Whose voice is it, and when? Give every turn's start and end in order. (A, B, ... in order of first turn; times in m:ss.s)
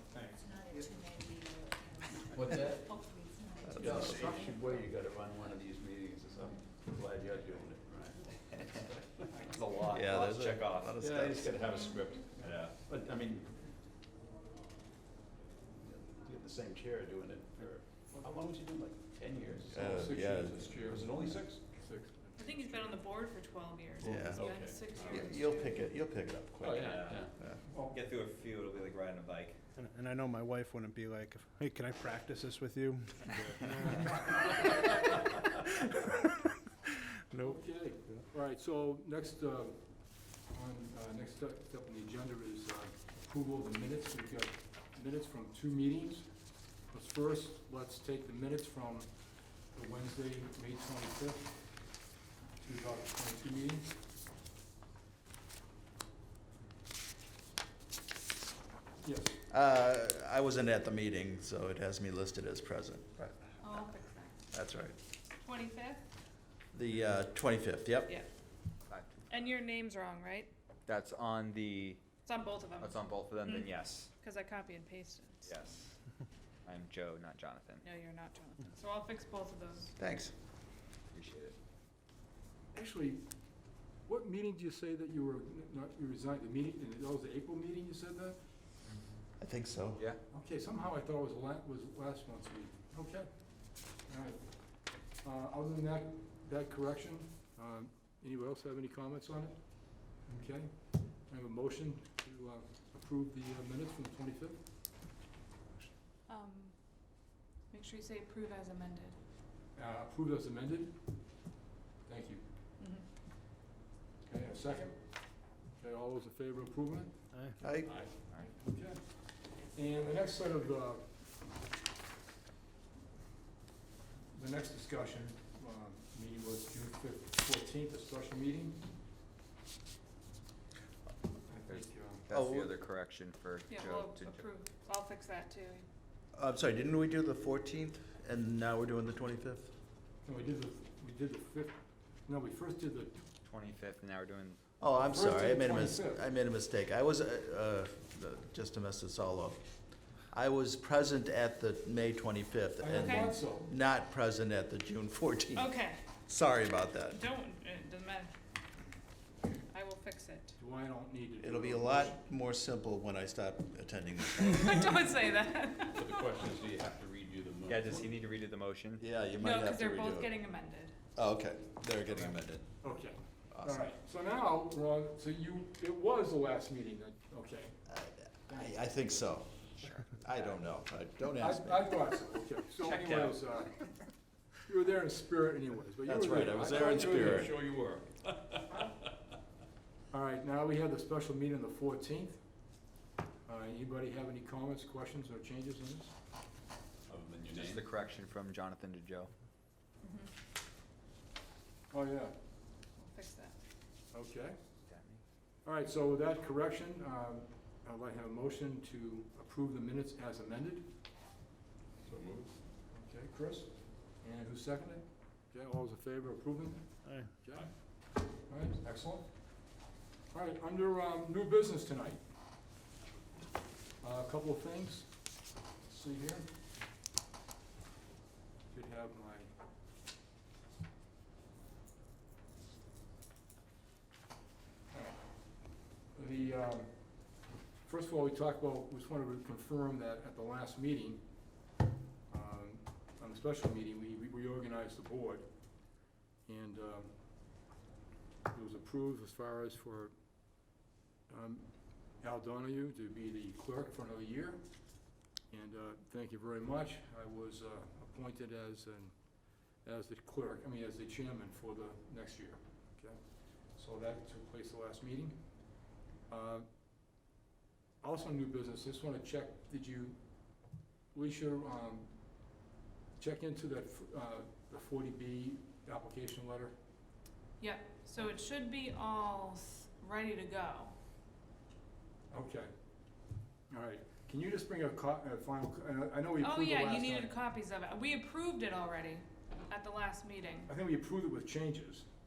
0:02.3-0:03.0 A
0:03.6-0:04.3 B
0:03.8-0:09.4 A
0:09.4-0:10.9 C
0:09.9-0:11.6 B
0:11.0-0:13.5 A
0:12.4-0:12.7 C
0:15.8-0:20.0 A
0:19.7-0:20.9 B
0:19.8-0:21.1 D
0:20.8-0:21.6 A
0:21.7-0:22.3 D
0:22.4-0:25.8 E
0:24.0-0:27.6 B
0:24.1-0:25.3 A
0:26.6-0:27.3 A
0:26.7-0:29.6 C
0:27.7-0:28.0 D
0:29.8-0:34.2 F
0:37.4-0:51.7 D
0:52.6-0:53.9 D
0:59.0-0:59.4 D
0:59.5-1:03.9 B
1:03.6-1:04.4 E
1:04.5-1:05.0 B
1:05.4-1:06.0 E
1:06.7-1:08.1 B
1:08.9-1:09.5 C
1:09.3-1:10.5 E
1:10.9-1:12.1 C
1:12.2-1:15.5 E
1:12.8-1:14.1 C
1:15.4-1:15.9 C
1:16.6-1:17.8 C
1:17.8-1:19.9 E
1:20.0-1:20.3 B
1:21.1-1:21.6 C
1:22.7-1:23.2 D
1:24.0-1:28.4 D
1:28.8-1:29.1 C
1:29.4-1:30.0 B
1:30.3-1:33.3 D
1:34.0-1:44.6 D
1:46.3-1:46.8 E
1:47.7-1:49.2 E
1:49.7-1:51.0 D
1:52.0-1:52.4 D
1:52.8-1:53.0 E
1:54.2-2:01.1 D
1:57.6-1:57.9 B
2:04.3-2:08.8 D
2:11.5-2:12.2 D
2:11.7-2:14.5 C
2:12.3-2:12.7 B
2:13.7-2:15.8 E
2:16.3-2:19.7 B
2:20.2-2:23.2 D
2:23.4-2:24.6 C
2:24.8-2:29.6 B
2:25.1-2:26.2 D
2:30.3-2:35.7 B
2:32.8-2:33.7 D
2:35.5-2:36.0 E
2:36.3-2:37.2 B
2:37.1-2:38.3 E
2:39.7-2:40.6 E
2:40.6-2:42.2 D
2:41.4-2:44.9 B
2:44.4-2:46.0 E
2:45.9-2:48.0 A
2:47.7-2:49.0 C
2:49.0-2:50.3 B
2:49.4-2:50.9 E
2:51.2-2:52.6 B
2:52.8-2:57.8 D
2:53.5-2:53.9 B
2:57.9-2:59.7 B
2:58.5-2:58.8 D
2:59.8-3:00.6 C
3:00.2-3:01.9 B
3:01.4-3:03.8 D
3:02.8-3:03.8 C
3:04.6-3:07.5 D
3:06.0-3:07.5 B
3:06.7-3:09.1 A
3:10.1-3:12.4 D
3:13.4-3:16.1 D
3:17.1-3:17.9 A
3:17.5-3:19.3 C
3:20.0-3:20.3 E
3:21.9-3:22.3 D
3:23.0-3:23.6 E
3:24.1-3:24.6 D
3:24.9-3:25.2 C
3:25.6-3:30.9 D
3:32.0-3:32.5 A
3:32.9-3:37.7 D
3:38.5-3:39.3 D
3:40.3-3:42.2 D
3:44.0-3:45.2 D
3:45.8-3:46.5 D
3:48.7-3:49.5 D
3:54.9-3:55.2 D
3:56.1-3:56.9 D
3:57.8-4:01.2 D
4:02.3-4:05.5 D
4:06.4-4:07.1 D
4:08.5-4:10.1 D
4:11.3-4:11.7 D
4:12.2-4:14.6 D
4:15.5-4:19.2 D
4:19.8-4:23.2 D
4:23.8-4:25.4 D
4:26.3-4:26.7 D
4:28.0-4:30.2 D
4:31.1-4:32.1 D
4:33.2-4:36.7 D
4:37.6-4:40.9 E
4:42.3-4:42.7 D
4:43.7-4:47.3 D
4:46.4-4:50.7 E
4:50.7-4:52.1 D